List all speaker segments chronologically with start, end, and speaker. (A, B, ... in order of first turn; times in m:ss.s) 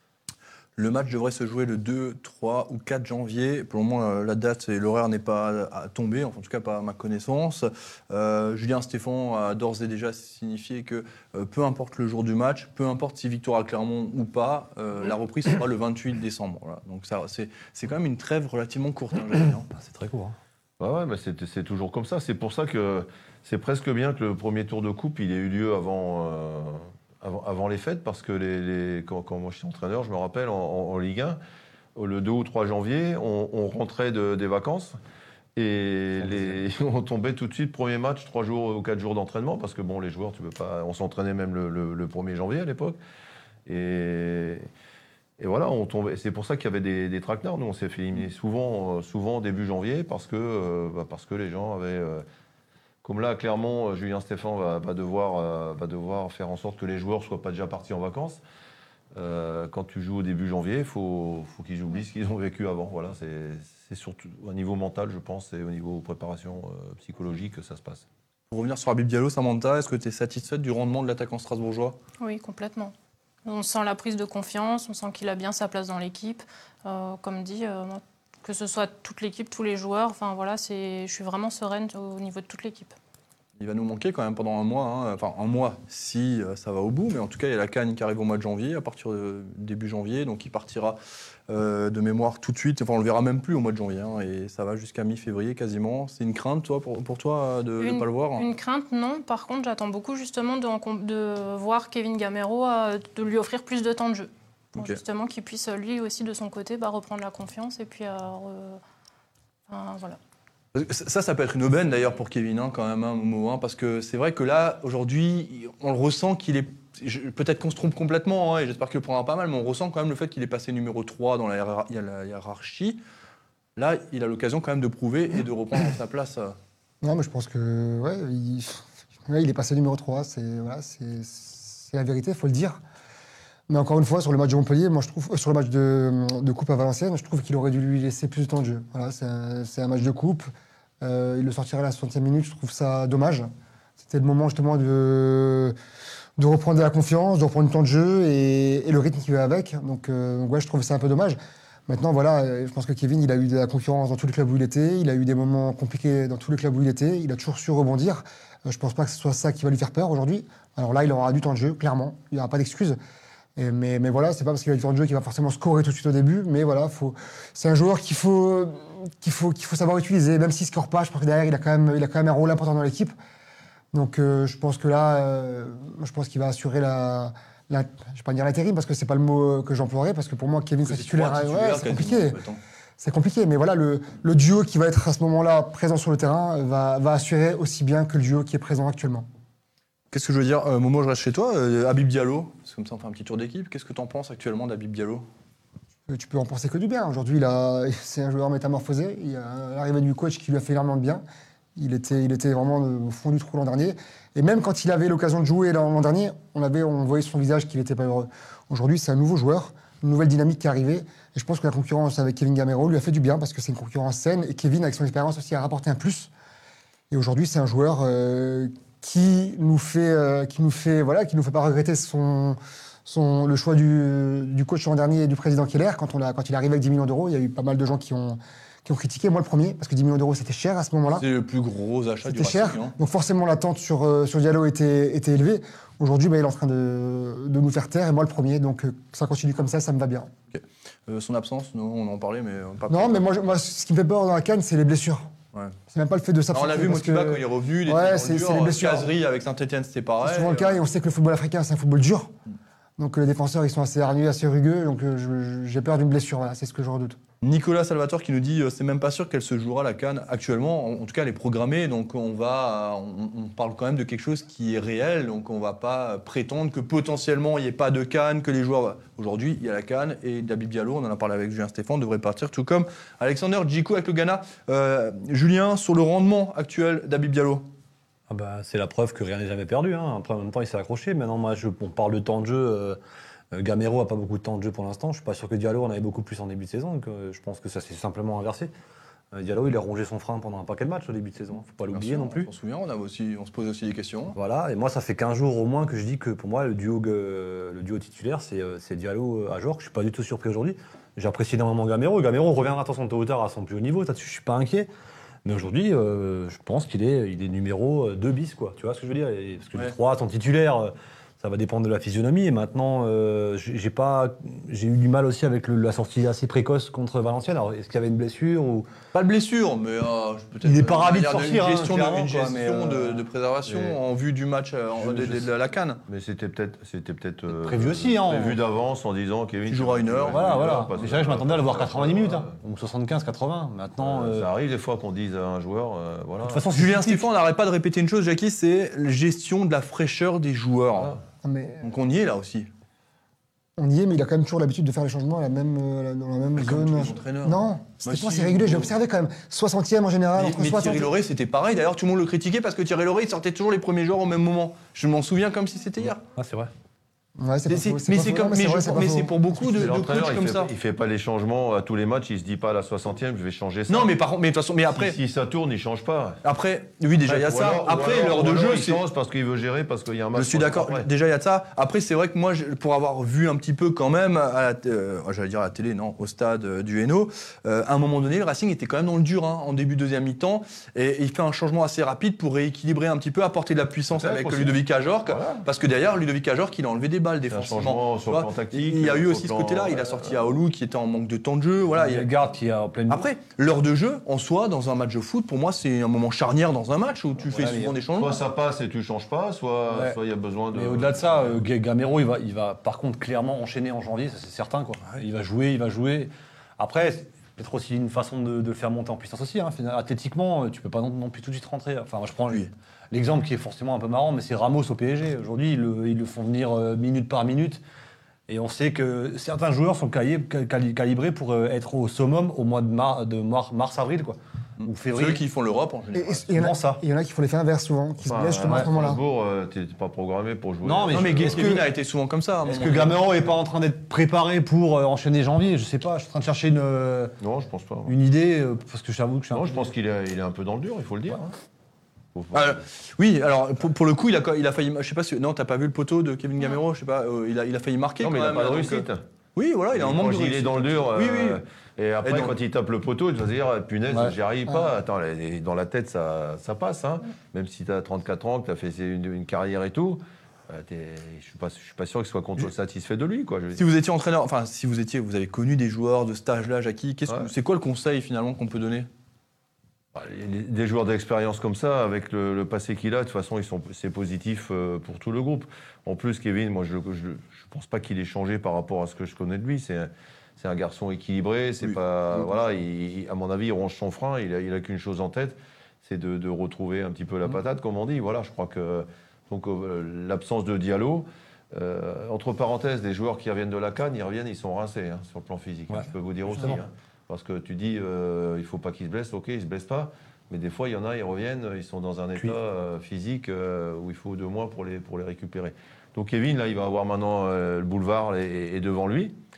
0:00.8-0:19.7 A
0:19.7-0:20.4 B
0:20.8-0:31.4 C
0:32.0-0:35.0 C
0:35.6-0:43.0 C
0:36.3-0:36.6 B
0:43.7-0:44.7 C
0:45.4-0:52.2 C
0:53.0-0:58.4 C
0:59.1-1:08.1 C
1:08.5-1:12.0 A
1:12.2-1:12.9 D
1:13.4-1:22.9 D
1:23.6-1:31.0 A
1:31.5-1:38.5 A
1:37.8-1:48.8 D
1:49.7-1:50.2 D
1:50.7-2:03.0 A
2:03.8-2:06.6 A
2:07.0-2:12.8 E
2:13.7-2:20.5 E
2:21.0-2:25.7 E
2:26.4-2:31.4 E
2:31.9-2:43.0 E
2:43.6-2:53.1 E
2:53.9-3:02.4 E
3:00.8-3:02.6 A
3:03.0-3:09.3 E
3:10.1-3:15.2 A
3:16.1-3:21.2 E
3:21.8-3:36.3 E
3:37.1-3:51.3 E
3:51.1-3:53.0 A
3:52.3-4:00.3 E
4:00.5-4:03.3 A
4:02.9-4:05.3 E
4:05.9-4:09.1 E
4:06.5-4:10.8 A
4:10.2-4:12.3 E
4:13.0-4:17.2 E
4:17.4-4:37.7 A
4:38.3-4:43.0 B
4:43.5-4:48.7 B
4:49.3-4:52.5 B
4:51.9-4:54.4 A
4:54.4-5:04.9 B
5:05.4-5:18.9 B
5:19.1-5:26.0 A
5:20.6-5:23.2 B
5:23.7-5:24.0 C
5:25.0-5:25.4 C
5:26.1-5:32.6 C
5:27.5-5:28.6 B
5:29.7-5:30.9 A
5:30.2-5:34.5 B
5:34.0-5:36.7 C
5:36.4-5:37.3 B
5:36.7-5:41.2 A
5:41.4-5:41.9 E
5:41.8-5:42.7 A
5:43.8-5:51.1 E
5:46.6-5:48.9 A
5:50.4-5:56.2 A
5:56.3-5:56.7 B
5:57.4-5:59.5 E
5:57.7-6:00.7 A
5:59.8-6:04.1 C
6:03.9-6:05.2 A
6:04.9-6:06.4 C
6:06.4-6:09.0 A
6:07.2-6:11.1 C
6:10.3-6:32.3 A
6:24.1-6:25.7 C
6:27.5-6:30.5 C
6:31.9-6:33.3 B
6:33.1-6:38.4 A
6:37.5-6:38.0 B
6:38.2-6:41.6 C
6:39.9-6:40.2 B
6:40.7-6:57.8 B
6:58.5-7:05.4 B
7:04.8-7:06.5 A
7:06.1-7:09.2 E
7:06.6-7:07.0 B
7:08.2-7:11.8 C
7:08.6-7:08.9 B
7:10.8-7:11.9 B
7:11.1-7:13.2 A
7:12.6-7:17.3 B
7:17.4-7:18.2 C
7:18.1-7:19.9 B
7:19.5-7:21.6 C
7:22.4-7:22.8 C
7:22.5-7:31.6 A
7:28.2-7:29.2 C
7:29.9-7:43.8 C
7:32.2-7:32.6 A
7:34.1-7:34.4 B
7:43.8-7:49.1 A
7:50.2-8:29.4 C
8:15.9-8:16.8 B